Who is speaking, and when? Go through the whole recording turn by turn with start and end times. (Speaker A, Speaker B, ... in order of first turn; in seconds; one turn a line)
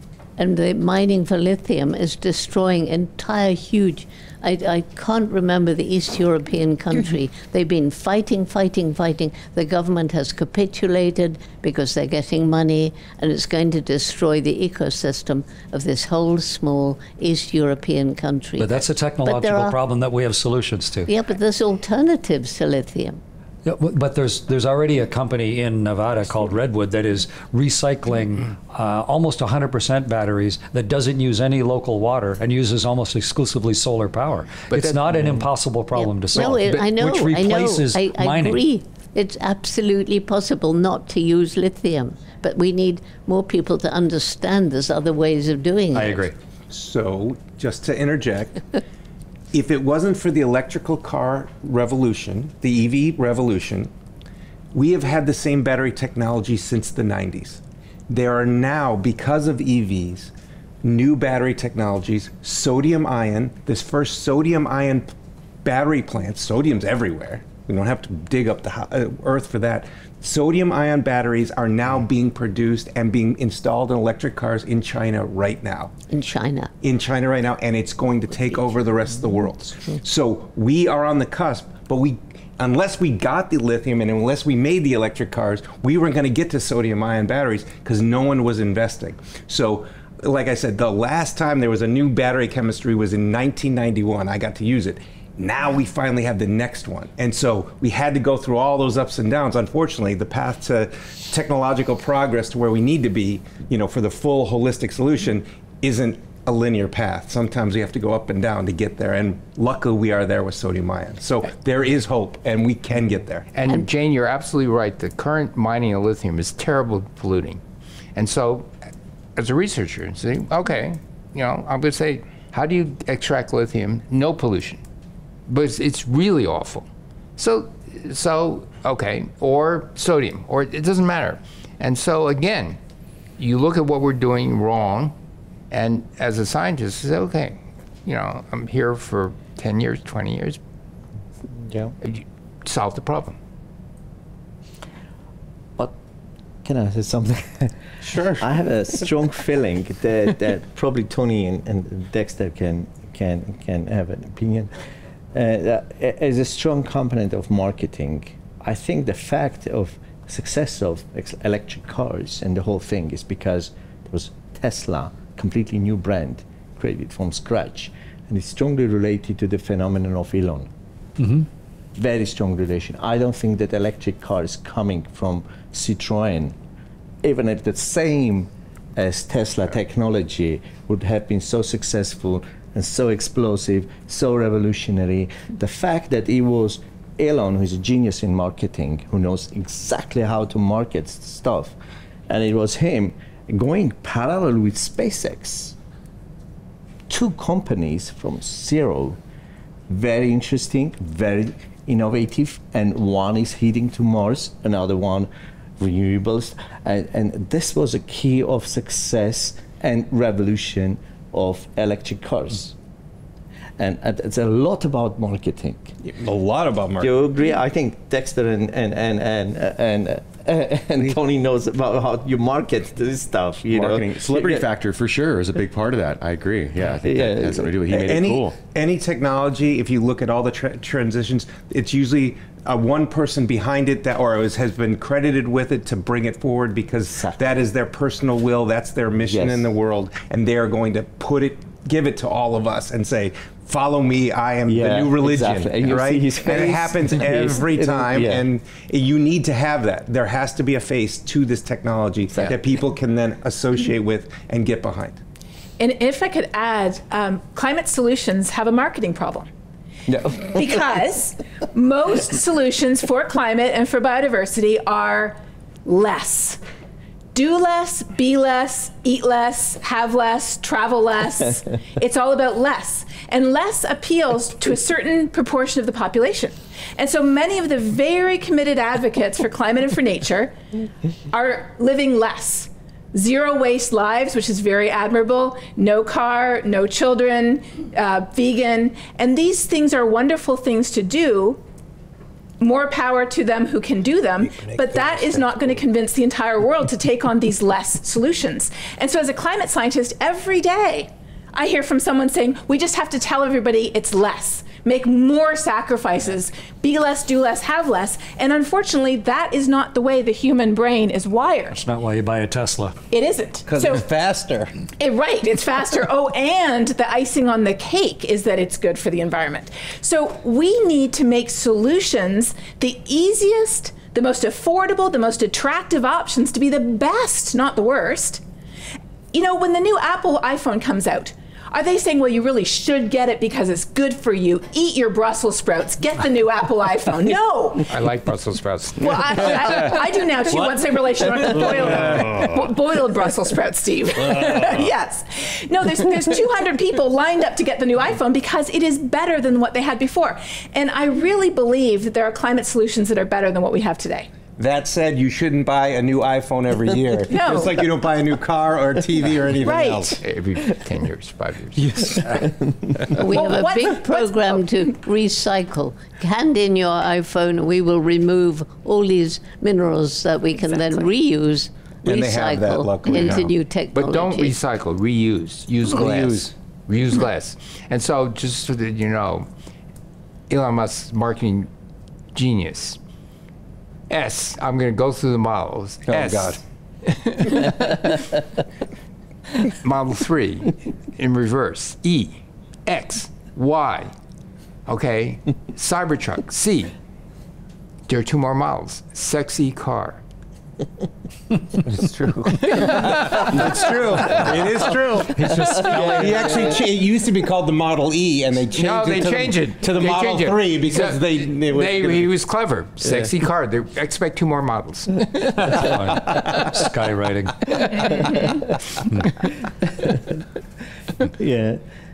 Speaker A: 0.4-19.7
Speaker B: 18.6-21.1
Speaker A: 21.1-23.2
Speaker B: 23.6-38.6
Speaker C: 34.7-35.2
Speaker A: 36.0-46.3
Speaker B: 45.9-46.3
Speaker D: 46.7-48.6
Speaker D: 49.5-53.9
Speaker D: 54.7-60.3
Speaker D: 60.8-65.1
Speaker D: 65.6-75.9
Speaker A: 76.1-76.7
Speaker D: 76.8-113.5
Speaker C: 113.5-117.6
Speaker C: 118.2-118.7
Speaker C: 119.3-124.8
Speaker C: 125.5-132.8
Speaker C: 133.4-135.1
Speaker C: 135.7-140.6
Speaker E: 141.6-141.9
Speaker C: 142.0-143.4
Speaker E: 146.6-154.7
Speaker D: 148.1-148.4
Speaker E: 155.3-170.7
Speaker B: 171.2-171.5
Speaker E: 171.9-176.6
Speaker E: 177.2-191.8
Speaker E: 192.3-195.7
Speaker E: 197.1-199.2
Speaker E: 199.9-212.8
Speaker E: 213.8-216.0
Speaker D: 216.1-217.2
Speaker E: 217.0-224.7
Speaker F: 223.7-228.6
Speaker E: 227.0-227.8
Speaker D: 227.9-255.2
Speaker E: 239.3-239.7
Speaker E: 244.7-248.5
Speaker G: 255.8-259.5
Speaker E: 260.1-260.6
Speaker G: 260.4-266.6
Speaker G: 267.3-280.5
Speaker G: 281.3-291.6
Speaker G: 292.6-311.8
Speaker D: 294.4-295.7
Speaker B: 311.7-312.9
Speaker G: 313.1-314.0
Speaker D: 313.7-314.7
Speaker G: 315.0-328.4
Speaker G: 329.3-337.9
Speaker C: 337.9-339.6
Speaker G: 339.0-354.3
Speaker D: 342.0-342.3
Speaker D: 354.6-360.1
Speaker G: 357.3-357.9
Speaker G: 359.6-360.2
Speaker C: 360.2-362.4
Speaker D: 361.9-362.5
Speaker A: 363.1-374.5
Speaker G: 363.2-364.6
Speaker D: 372.0-373.5
Speaker C: 373.9-379.5
Speaker D: 376.0-376.3
Speaker C: 380.5-381.7
Speaker C: 382.3-383.0
Speaker C: 384.1-388.1
Speaker D: 386.1-386.5
Speaker E: 386.1-386.4
Speaker C: 389.8-394.1
Speaker C: 394.9-396.9
Speaker C: 398.1-400.2
Speaker D: 402.0-402.4
Speaker C: 402.6-403.8
Speaker D: 403.1-412.3
Speaker E: 405.6-406.6
Speaker C: 405.7-406.4
Speaker C: 408.7-416.5
Speaker B: 415.6-417.7
Speaker C: 417.7-418.4
Speaker E: 418.3-418.6
Speaker E: 421.2-421.8